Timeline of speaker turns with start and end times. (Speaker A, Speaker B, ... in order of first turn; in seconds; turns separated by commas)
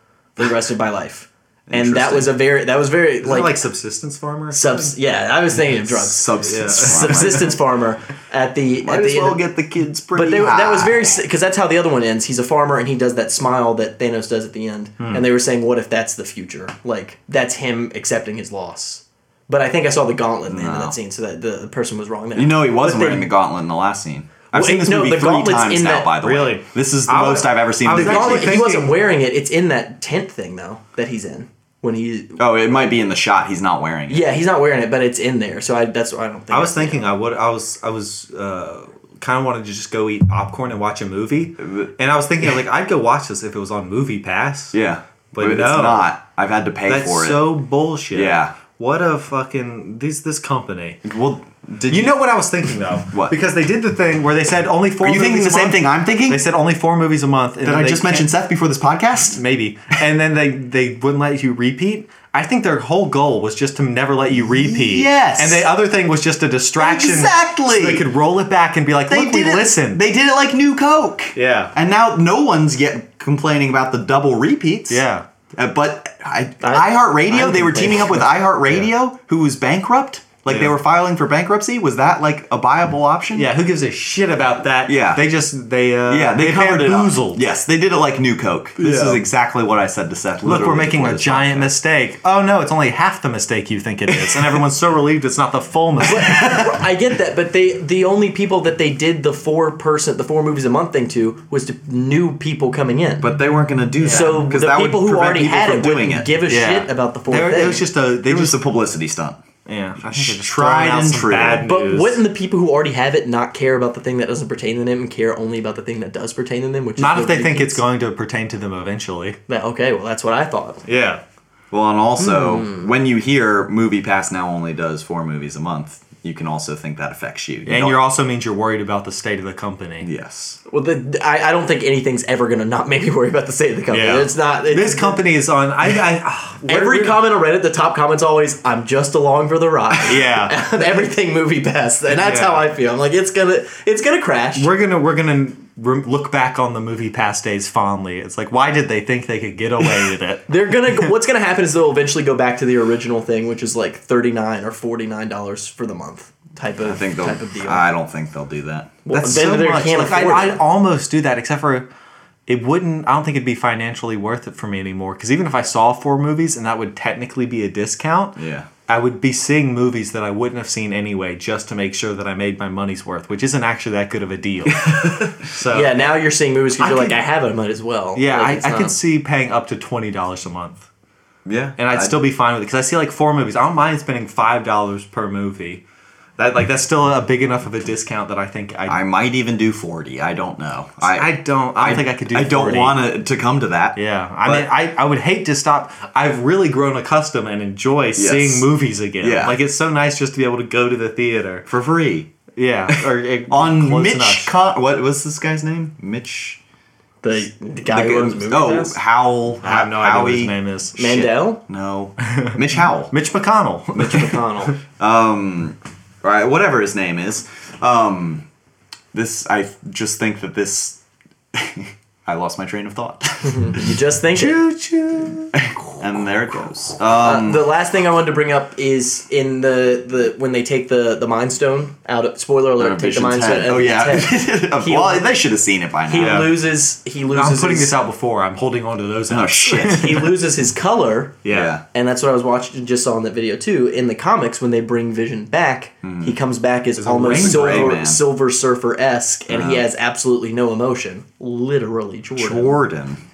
Speaker A: 0.4-3.7, Speaker B: 1.7-2.4, Speaker C: 3.2-5.0, Speaker A: 4.5-9.4, Speaker B: 5.8-7.6, Speaker C: 6.4-7.5, Speaker B: 8.8-11.2, Speaker A: 10.1-23.3, Speaker B: 20.5-20.9, Speaker B: 22.3-28.7, Speaker A: 24.5-26.1, Speaker C: 26.2-28.9, Speaker A: 27.9-32.4, Speaker B: 32.4-34.3, Speaker A: 34.1-37.0, Speaker C: 36.5-44.7, Speaker B: 41.6-41.9, Speaker B: 44.7-47.5, Speaker C: 45.3-46.1, Speaker C: 46.9-51.0, Speaker B: 48.1-48.5, Speaker B: 51.0-52.2, Speaker C: 51.9-58.3, Speaker B: 55.0-56.4, Speaker B: 57.6-59.4, Speaker C: 59.3-70.0, Speaker B: 64.4-65.7, Speaker B: 66.8-68.1, Speaker B: 69.1-75.0, Speaker C: 71.3-71.7, Speaker C: 74.9-75.2, Speaker B: 75.5-83.5, Speaker A: 76.6-78.3, Speaker C: 80.5-80.7, Speaker C: 83.3-87.4, Speaker B: 84.8-85.3, Speaker B: 86.1-91.7, Speaker C: 88.8-89.2, Speaker C: 90.4-96.5, Speaker A: 96.0-103.3, Speaker B: 96.3-96.7, Speaker B: 103.2-106.4, Speaker C: 104.0-104.4, Speaker A: 104.0-107.8, Speaker C: 106.5-108.6, Speaker B: 108.2-109.4, Speaker C: 109.7-112.2, Speaker B: 110.0-111.7, Speaker A: 111.7-117.8, Speaker C: 117.0-119.4, Speaker A: 119.5-120.8, Speaker C: 120.9-121.2, Speaker B: 121.7-128.0, Speaker A: 122.2-122.8, Speaker C: 127.7-130.1, Speaker B: 130.0-130.6, Speaker A: 130.7-135.2, Speaker C: 133.9-137.2, Speaker A: 136.6-144.7, Speaker C: 140.1-140.5, Speaker C: 142.2-142.7, Speaker C: 144.6-151.1, Speaker A: 150.5-157.8, Speaker B: 156.8-159.0, Speaker A: 159.0-160.6, Speaker C: 159.1-161.8, Speaker C: 162.5-176.0, Speaker B: 168.4-168.7, Speaker A: 175.7-178.9, Speaker C: 176.8-177.2, Speaker C: 178.1-180.9, Speaker B: 181.4-182.2, Speaker C: 181.8-185.8, Speaker C: 186.4-189.0, Speaker B: 188.9-194.7, Speaker C: 191.0-193.1, Speaker C: 193.9-201.7, Speaker B: 198.2-199.6, Speaker B: 201.7-202.3, Speaker C: 202.5-204.5, Speaker B: 203.5-206.6, Speaker A: 207.2-208.9, Speaker B: 207.9-213.1, Speaker C: 209.6-211.2, Speaker A: 211.0-211.6, Speaker C: 212.2-212.6, Speaker C: 213.1-214.7, Speaker A: 213.9-214.8, Speaker B: 215.0-218.4, Speaker B: 219.1-221.0, Speaker B: 221.5-223.9, Speaker A: 223.5-224.6, Speaker C: 224.3-225.6, Speaker B: 225.5-227.6, Speaker A: 227.2-235.3, Speaker B: 232.8-236.5, Speaker A: 236.1-237.9, Speaker C: 236.2-236.5, Speaker C: 237.3-240.3, Speaker B: 239.3-240.2, Speaker A: 239.8-252.8, Speaker C: 241.4-241.8, Speaker B: 241.5-241.8, Speaker B: 246.0-246.4, Speaker C: 247.0-248.0, Speaker B: 247.0-248.2, Speaker B: 249.5-249.9, Speaker B: 252.4-253.2